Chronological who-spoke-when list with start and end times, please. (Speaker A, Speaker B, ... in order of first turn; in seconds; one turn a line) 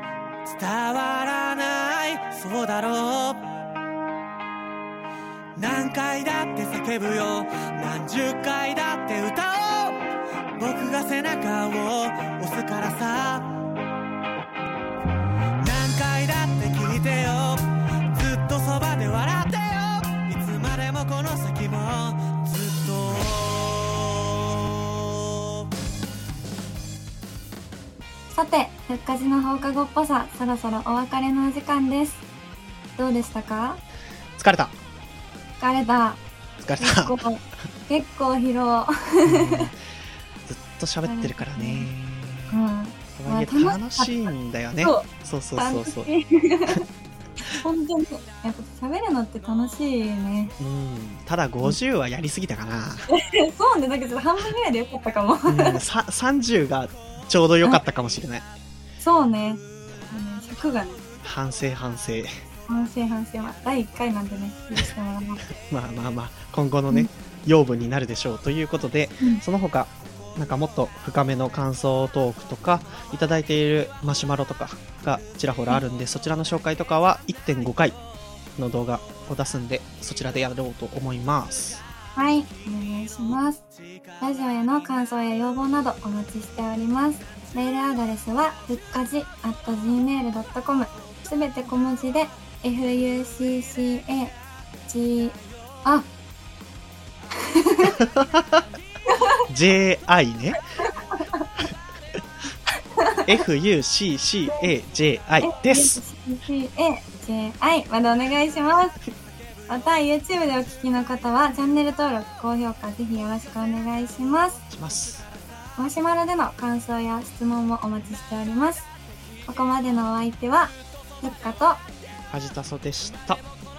Speaker A: 0.5-3.6
Speaker A: 5.6-10.0
Speaker A: 10.6-13.6
Speaker A: 15.6-25.6
Speaker B: 28.3-32.2
Speaker B: 33.0-33.8
Speaker C: 34.4-34.7
Speaker B: 35.6-36.2
Speaker C: 36.6-37.2
Speaker B: 36.8-39.7
Speaker C: 39.3-39.8
Speaker C: 40.5-42.6
Speaker B: 41.0-41.9
Speaker B: 42.5-44.3
Speaker C: 43.2-46.1
Speaker B: 44.8-46.9
Speaker B: 47.5-50.5
Speaker C: 50.6-53.1
Speaker B: 53.1-55.8
Speaker C: 55.5-58.5
Speaker B: 59.0-61.0
Speaker C: 61.2-62.3
Speaker B: 62.7-65.5
Speaker C: 65.5-78.0
Speaker C: 78.6-81.8
Speaker B: 82.2-83.6
Speaker B: 84.2-94.3
Speaker B: 94.9-96.1
Speaker B: 97.4-98.0
Speaker C: 97.8-98.7
Speaker B: 99.1-99.4
Speaker C: 99.5-100.6
Speaker B: 100.8-101.5
Speaker B: 103.0-103.3
Speaker C: 103.3-106.0
Speaker B: 105.4-109.0
Speaker B: 109.7-114.6
Speaker C: 114.7-115.3
Speaker B: 115.8-118.9
Speaker B: 119.5-121.8
Speaker C: 122.3-123.4